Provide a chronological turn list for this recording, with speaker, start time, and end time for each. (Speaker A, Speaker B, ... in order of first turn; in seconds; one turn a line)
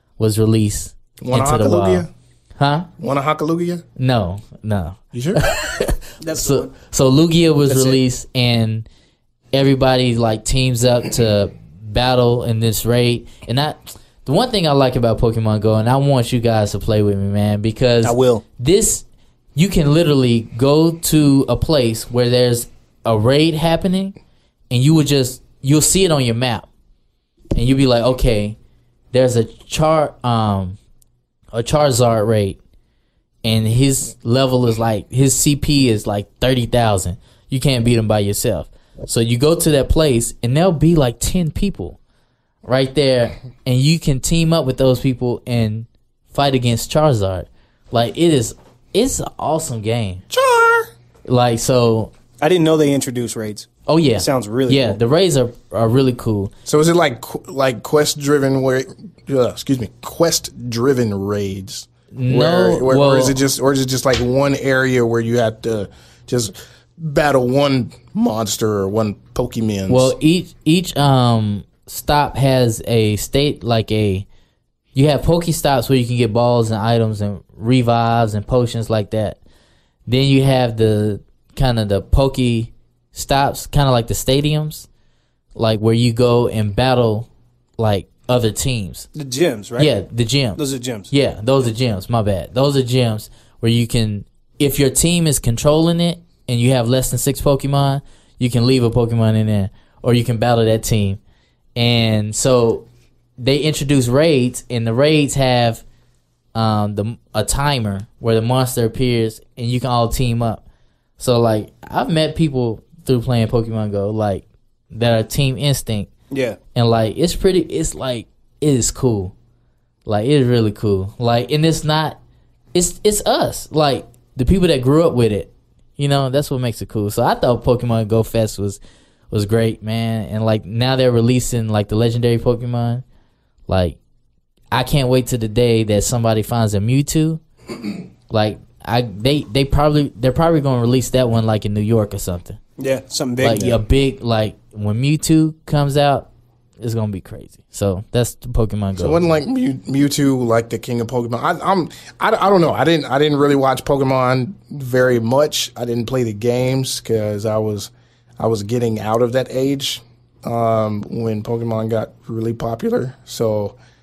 Speaker A: 0.2-2.1
Speaker B: 1.2-2.1
Speaker A: 2.6-2.9
Speaker B: 3.0-3.8
Speaker A: 4.0-8.9
Speaker B: 5.1-5.5
Speaker C: 6.2-6.7
Speaker C: 7.7-8.0
Speaker A: 9.5-19.0
Speaker C: 18.0-18.4
Speaker A: 19.6-24.1
Speaker A: 24.7-26.7
Speaker A: 27.6-28.6
Speaker A: 29.1-30.8
Speaker A: 31.5-32.6
Speaker A: 33.4-42.0
Speaker A: 42.6-50.2
Speaker B: 50.3-50.9
Speaker A: 51.3-52.1
Speaker C: 52.4-55.0
Speaker A: 53.9-56.5
Speaker B: 56.7-70.1
Speaker A: 62.1-63.4
Speaker A: 69.9-74.3
Speaker A: 74.9-79.4
Speaker A: 80.1-84.9
Speaker A: 85.5-89.1
Speaker C: 89.2-89.9
Speaker A: 89.8-101.2
Speaker C: 90.6-91.1
Speaker A: 101.8-102.9
Speaker A: 103.4-105.8
Speaker A: 106.5-110.6
Speaker A: 111.2-116.1
Speaker C: 116.3-116.6
Speaker A: 116.8-119.3
Speaker A: 120.1-122.2
Speaker A: 122.7-128.8
Speaker A: 129.3-133.0
Speaker A: 133.7-134.0
Speaker A: 134.7-137.4
Speaker A: 138.3-142.6
Speaker C: 142.8-143.8
Speaker A: 143.4-146.3
Speaker A: 146.8-149.3
Speaker B: 149.0-163.8